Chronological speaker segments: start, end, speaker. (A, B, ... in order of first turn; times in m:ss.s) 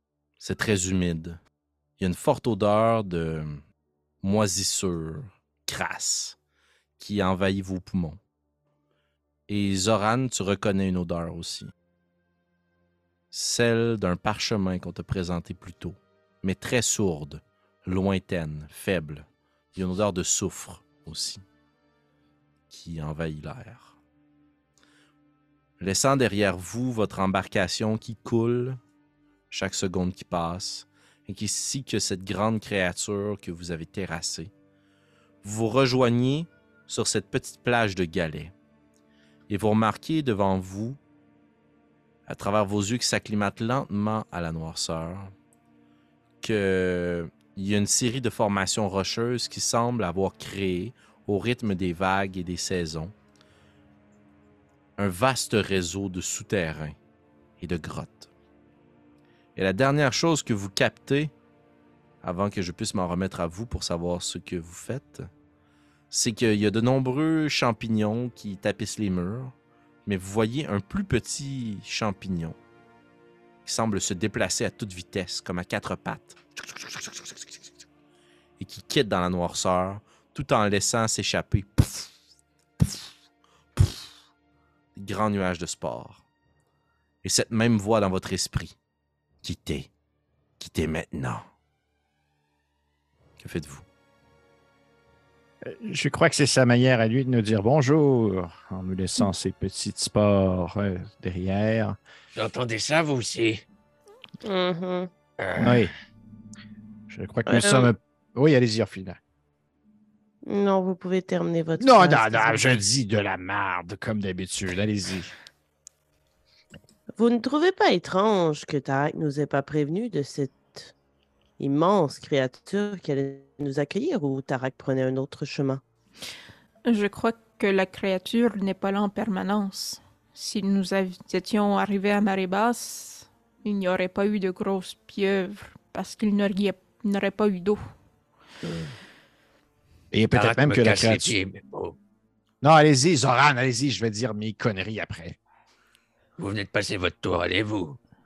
0:00.4-0:01.4 A
0:02.0-0:03.6 A
0:04.2-0:06.4 A
0:07.0-0:08.2 A
0:09.5-0:11.7 A
0:13.3-0:21.4 A
0:22.7-0:24.0 A
0:25.8-0:28.8 A
0:29.5-0:34.5 A
0:35.4-0:38.5 A
0:39.5-0:41.0 A
0:42.3-0:45.3 A
0:46.4-0:53.1 A
0:55.0-0:57.0 A
0:57.6-0:58.3 A
0:59.6-1:01.3 A
1:02.2-1:05.3 A
1:06.1-1:09.5 A
1:10.1-1:12.6 A
1:13.7-1:17.6 A
1:18.6-1:22.1 A
1:22.8-1:23.1 A
1:23.8-1:24.1 A
1:25.0-1:26.2 A
1:27.2-1:28.8 A
1:29.4-1:29.9 A
1:30.6-1:31.4 A
1:33.4-1:33.8 A
1:35.6-1:42.0 B
1:42.4-1:43.6 C
1:44.4-1:45.1 D
1:45.4-1:45.9 C
1:45.6-1:45.9 B
1:47.1-1:49.2 B
1:47.5-1:47.9 D
1:50.5-1:52.8 D
1:51.8-1:55.3 B
1:57.2-2:00.9 D
2:01.6-2:05.8 D
2:06.8-2:17.8 E
2:18.6-2:19.0 C
2:20.1-2:21.4 B
2:20.3-2:22.0 C
2:22.6-2:25.4 B
2:26.4-2:28.0 C